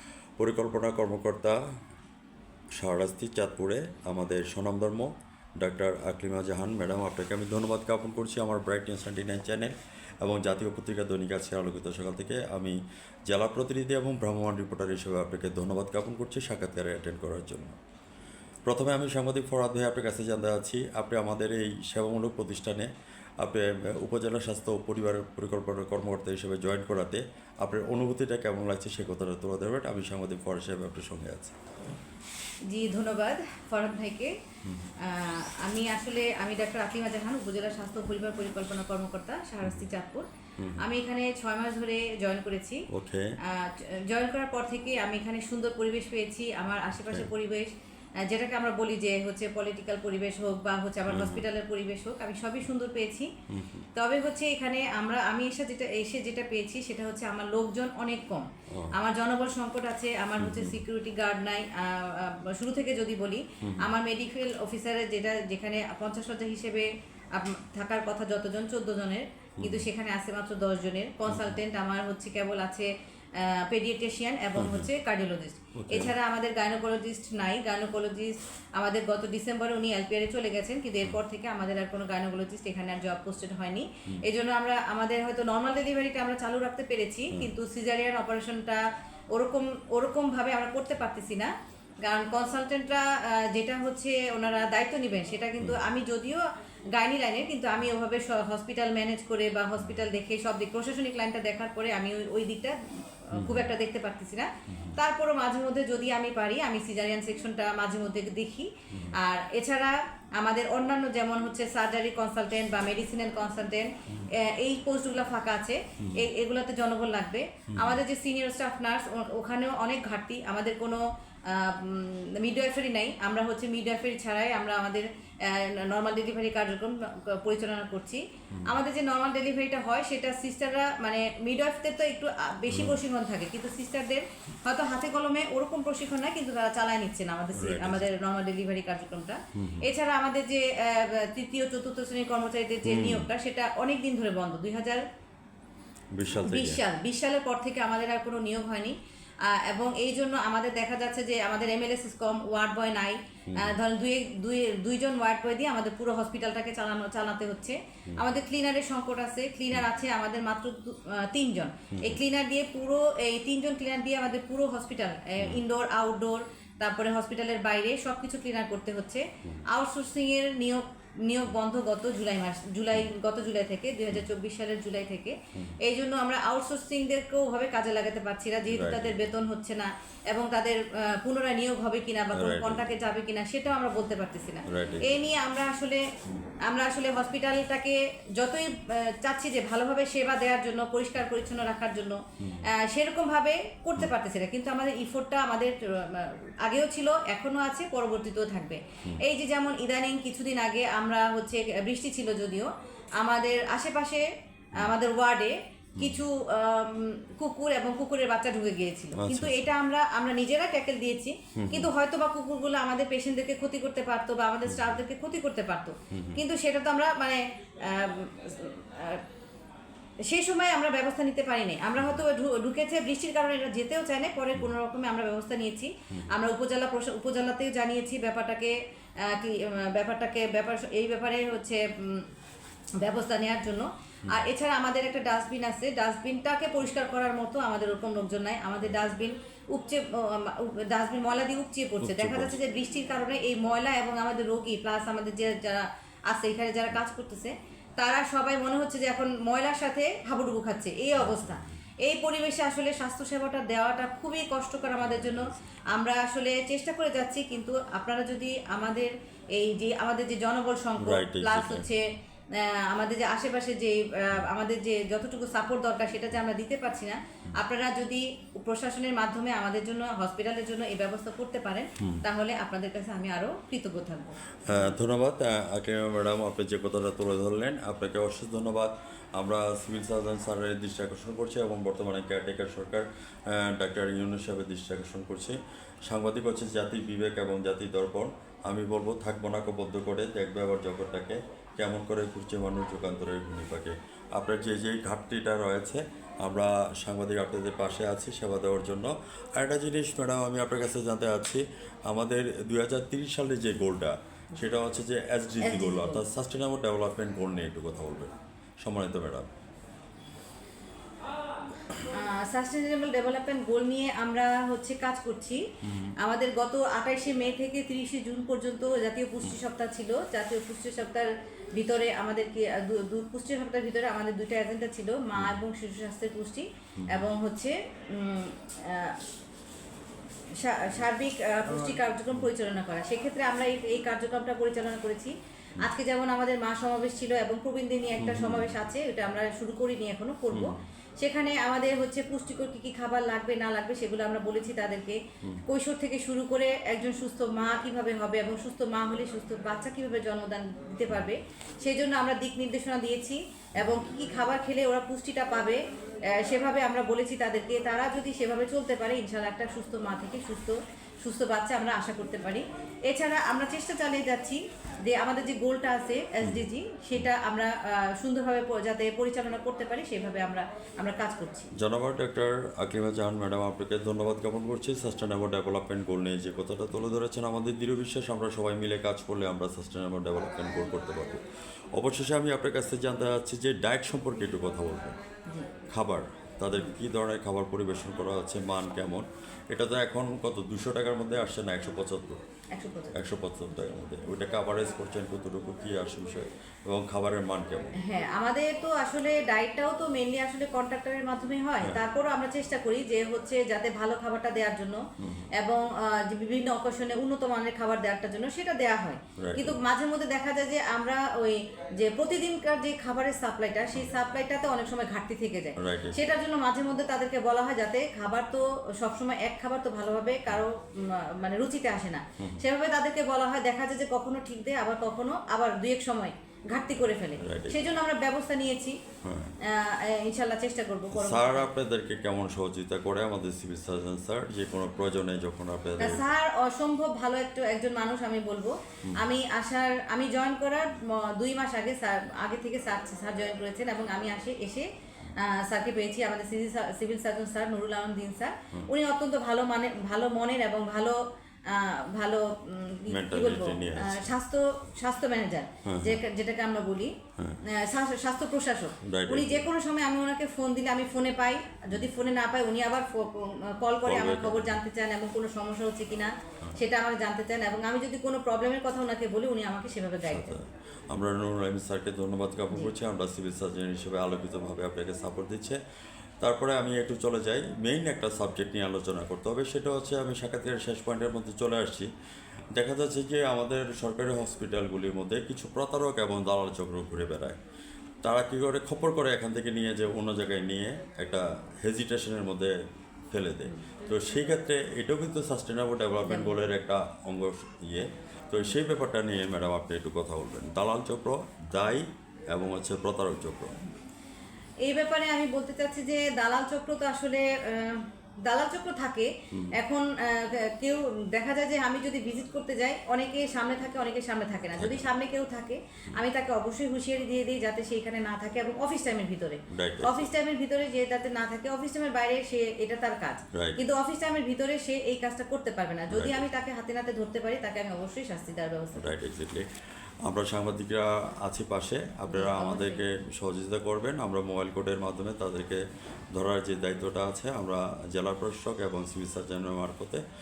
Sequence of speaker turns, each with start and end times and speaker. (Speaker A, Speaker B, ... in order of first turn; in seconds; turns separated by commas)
Speaker A: 0.4-1.6, Speaker A: 2.8-12.8, Speaker A: 13.3-17.8, Speaker A: 18.7-22.9, Speaker A: 23.4-31.6, Speaker B: 32.7-34.4, Speaker A: 34.6-34.9, Speaker B: 35.0-40.3, Speaker B: 40.8-42.8, Speaker A: 42.9-43.4, Speaker B: 43.4-47.7, Speaker B: 48.2-53.3, Speaker A: 51.1-51.4, Speaker A: 53.5-53.9, Speaker B: 53.9-91.5, Speaker A: 60.4-60.8, Speaker A: 63.6-63.9, Speaker A: 69.6-69.9, Speaker A: 71.3-71.6, Speaker A: 74.5-74.9, Speaker A: 75.7-76.1, Speaker B: 92.0-145.0, Speaker A: 103.3-103.7, Speaker A: 104.7-105.0, Speaker A: 117.7-118.0, Speaker A: 132.7-133.0, Speaker A: 137.5-138.1, Speaker A: 139.5-139.8, Speaker A: 142.8-143.3, Speaker A: 146.1-146.8, Speaker B: 146.3-186.0, Speaker A: 153.5-153.7, Speaker A: 161.9-162.2, Speaker A: 178.7-179.2, Speaker A: 182.3-182.8, Speaker A: 184.7-185.1, Speaker B: 186.7-219.2, Speaker A: 192.4-192.7, Speaker A: 209.1-209.7, Speaker A: 211.6-211.9, Speaker A: 216.1-216.4, Speaker B: 220.2-232.2, Speaker B: 233.0-274.9, Speaker A: 242.0-242.6, Speaker A: 251.1-251.8, Speaker A: 255.1-255.8, Speaker A: 261.0-261.9, Speaker A: 274.7-309.5, Speaker B: 305.6-306.2, Speaker B: 312.0-315.6, Speaker B: 316.2-329.2, Speaker A: 327.0-327.3, Speaker B: 330.6-371.7, Speaker A: 338.2-338.7, Speaker A: 371.8-381.4, Speaker A: 381.9-385.1, Speaker A: 385.9-392.4, Speaker B: 392.7-393.1, Speaker A: 393.1-397.9, Speaker B: 398.0-405.0, Speaker A: 405.2-405.4, Speaker B: 405.6-429.0, Speaker A: 409.4-409.8, Speaker A: 415.8-416.2, Speaker A: 427.4-427.8, Speaker A: 429.2-429.5, Speaker B: 429.6-431.7, Speaker A: 431.1-436.3, Speaker B: 436.0-457.1, Speaker A: 453.1-454.3, Speaker A: 455.9-456.2, Speaker B: 457.7-470.6, Speaker A: 459.0-459.6, Speaker A: 464.1-464.8, Speaker A: 470.2-475.8, Speaker A: 476.4-482.1, Speaker A: 482.7-487.6, Speaker A: 488.2-492.7, Speaker A: 493.3-503.8, Speaker B: 496.2-496.6, Speaker B: 504.8-529.1, Speaker A: 514.8-515.0, Speaker A: 519.7-520.3, Speaker A: 523.5-523.8, Speaker A: 526.1-526.4, Speaker A: 529.0-529.7, Speaker A: 530.2-535.8, Speaker B: 532.3-533.0, Speaker A: 536.3-540.2